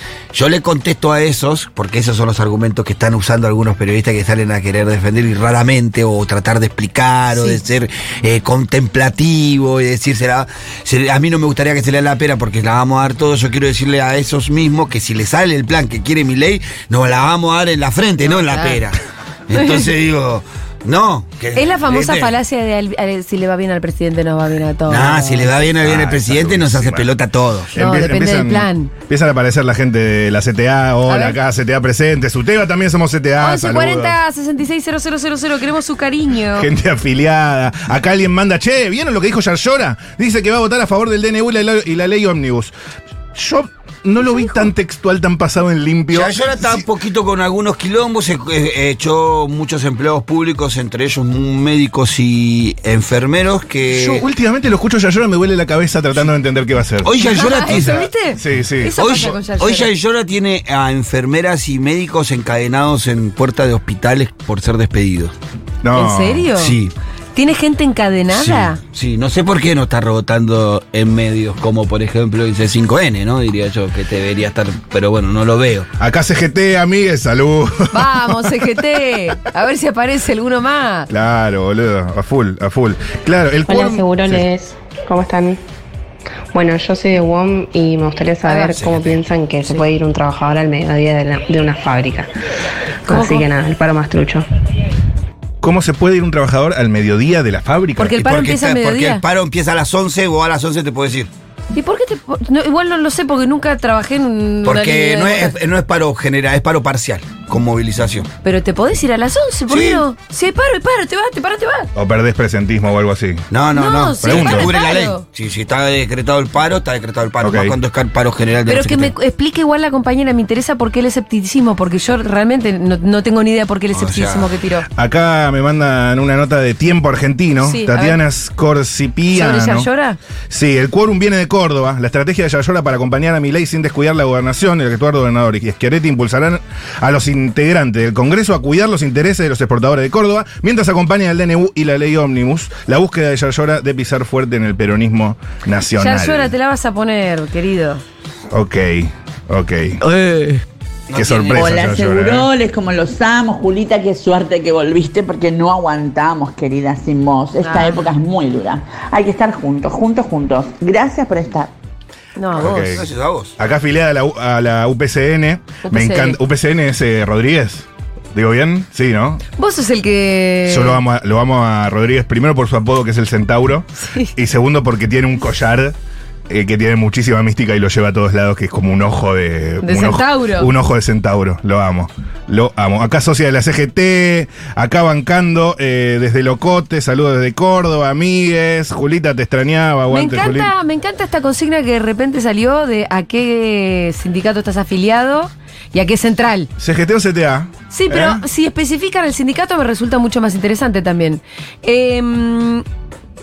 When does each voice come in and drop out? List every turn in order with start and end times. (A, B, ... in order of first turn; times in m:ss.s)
0:00.3-0:22.3 A
0:07.3-0:07.6 B
0:18.2-0:18.8 B
0:19.5-0:19.9 B
0:21.5-0:25.6 B
0:24.9-0:27.7 A
0:25.8-0:27.1 C
0:27.7-0:34.2 C
0:27.8-0:28.9 B
0:31.1-0:31.4 B
0:33.4-0:36.7 B
0:36.5-0:42.7 C
0:43.3-0:46.8 C
0:44.2-0:44.7 B
0:46.1-0:54.2 A
0:53.9-0:59.0 C
0:57.0-0:58.1 A
0:57.2-0:59.9 B
0:58.9-1:05.3 A
1:05.8-1:06.5 C
1:05.9-1:06.8 B
1:06.5-1:06.9 A
1:07.3-1:08.8 B
1:08.3-1:15.9 A
1:16.0-1:18.8 C
1:17.9-1:21.1 B
1:21.1-1:24.4 C
1:23.7-1:25.6 D
1:26.5-1:32.3 D
1:28.4-1:28.8 B
1:28.8-1:29.2 A
1:33.1-1:34.4 D
1:33.1-1:33.5 B
1:35.6-1:38.2 C
1:38.0-1:39.2 B
1:38.1-1:41.3 A
1:41.7-1:45.6 B
1:44.6-1:48.3 A
1:48.4-1:51.9 B
1:49.7-1:50.0 A
1:51.9-1:53.5 C
1:53.5-1:59.1 A
1:53.7-1:55.2 B
1:54.2-1:54.7 C
1:57.4-1:57.8 C
1:58.7-2:04.9 B
2:03.9-2:04.5 A
2:04.9-2:09.9 C
2:07.6-2:08.2 B
2:09.3-2:10.2 B
2:10.5-2:26.5 C
2:26.0-2:28.0 B
2:28.5-2:30.0 C
2:30.0-2:30.6 E
2:31.1-2:31.9 A
2:31.1-2:32.5 C
2:31.5-2:41.7 E
2:37.6-2:38.0 B
2:42.4-2:43.0 B
2:42.5-2:43.5 A
2:42.6-2:43.1 C
2:43.6-2:49.4 C
2:45.8-2:46.4 B
2:49.6-2:51.0 B
2:50.7-2:55.9 C
2:54.0-2:54.3 B
2:56.5-3:10.7 C
2:59.8-3:00.7 B
3:10.1-3:16.7 B
3:16.8-3:18.4 C
3:17.9-3:22.8 B